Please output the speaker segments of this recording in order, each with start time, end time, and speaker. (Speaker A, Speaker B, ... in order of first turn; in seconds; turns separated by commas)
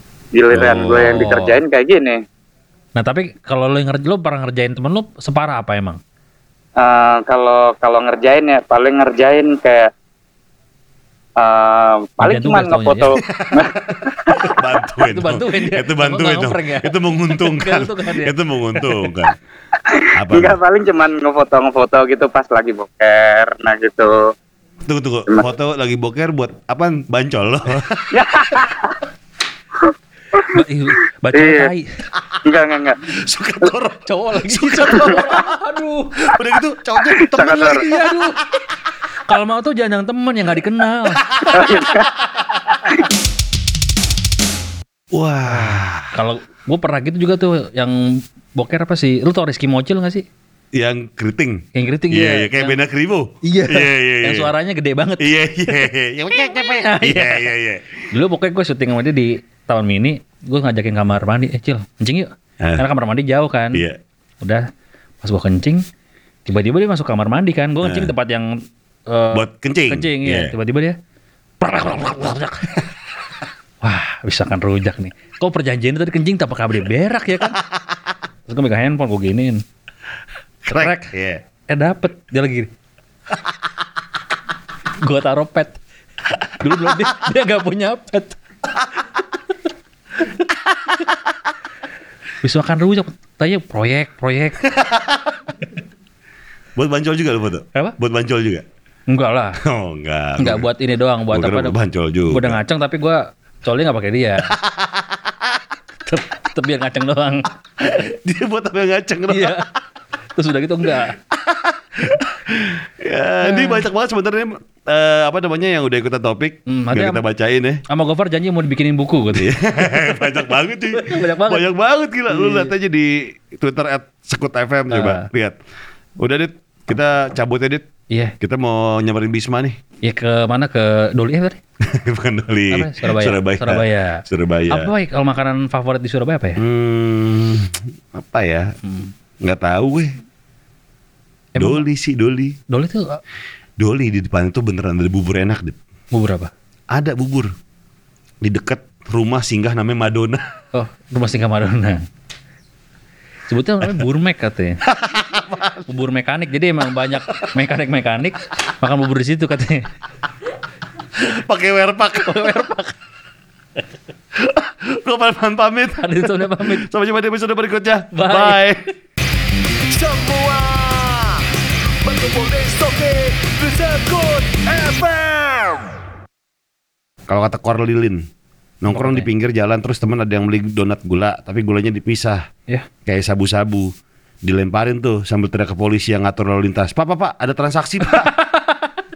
Speaker A: 0.3-2.2, Speaker B: 0.5-1.1, Speaker C: 0.6-1.6, Speaker C: 3.0-6.0, Speaker A: 6.8-9.9, Speaker A: 11.4-14.6, Speaker C: 12.2-13.1, Speaker B: 13.2-19.4, Speaker C: 15.0-18.9, Speaker A: 19.9-24.3, Speaker B: 20.1-20.6, Speaker B: 24.9-28.7, Speaker A: 28.1-29.0, Speaker A: 29.8-30.6, Speaker C: 30.5-31.9, Speaker A: 31.3-31.7, Speaker A: 32.4-33.0, Speaker B: 33.1-35.6, Speaker C: 34.1-36.3, Speaker A: 34.9-35.2, Speaker B: 36.2-38.6, Speaker A: 37.0-37.9, Speaker C: 37.6-38.4, Speaker C: 39.2-41.9, Speaker B: 41.3-41.8, Speaker A: 41.5-42.1, Speaker B: 45.1-46.2, Speaker C: 45.5-50.3, Speaker B: 50.8-54.5, Speaker C: 51.7-52.8, Speaker C: 53.4-57.5, Speaker B: 55.2-58.0, Speaker C: 58.1-63.9, Speaker B: 62.6-62.9, Speaker B: 63.7-64.0, Speaker C: 64.4-64.7, Speaker C: 65.2-65.8, Speaker C: 66.5-71.0, Speaker B: 67.8-68.1, Speaker B: 69.3-70.5, Speaker C: 71.6-72.9, Speaker C: 73.8-77.6, Speaker B: 77.5-78.0, Speaker C: 78.5-79.6, Speaker B: 80.7-81.4, Speaker C: 80.7-81.1, Speaker C: 81.7-82.7, Speaker C: 85.0-85.8, Speaker C: 86.5-88.4, Speaker B: 90.6-91.1, Speaker C: 92.4-94.6, Speaker B: 94.7-95.2, Speaker B: 96.8-98.7, Speaker C: 99.1-99.6, Speaker B: 99.6-100.7, Speaker C: 100.4-101.8, Speaker B: 101.3-102.6, Speaker C: 102.3-104.5, Speaker B: 104.5-105.3, Speaker C: 106.0-107.5, Speaker B: 107.8-109.6, Speaker C: 109.3-109.7, Speaker C: 110.3-111.2, Speaker B: 111.3-117.8, Speaker C: 113.4-113.9, Speaker C: 116.7-117.2, Speaker C: 117.9-121.7, Speaker B: 119.3-125.5, Speaker C: 122.3-122.7, Speaker C: 124.9-125.3, Speaker B: 126.2-127.8, Speaker C: 128.1-128.3, Speaker B: 128.4-129.8, Speaker C: 130.0-131.6, Speaker B: 131.8-134.9, Speaker C: 132.7-136.6, Speaker B: 136.6-138.8, Speaker C: 138.8-139.1, Speaker B: 139.4-140.2, Speaker C: 141.6-141.8, Speaker B: 141.6-142.6, Speaker C: 142.7-143.2, Speaker B: 143.8-145.8, Speaker C: 146.1-146.5, Speaker B: 146.9-147.5, Speaker B: 148.4-150.5, Speaker C: 150.7-152.1, Speaker C: 153.5-154.8, Speaker B: 154.9-155.9, Speaker C: 155.9-159.9, Speaker B: 161.2-162.6, Speaker C: 162.2-162.9, Speaker B: 164.4-168.9, Speaker C: 166.0-166.9, Speaker C: 168.1-168.8, Speaker B: 169.9-171.5, Speaker B: 172.0-175.9, Speaker B: 177.3-178.2, Speaker B: 178.8-182.5, Speaker C: 178.9-179.3, Speaker B: 183.1-183.9, Speaker B: 184.4-188.3, Speaker C: 188.1-189.0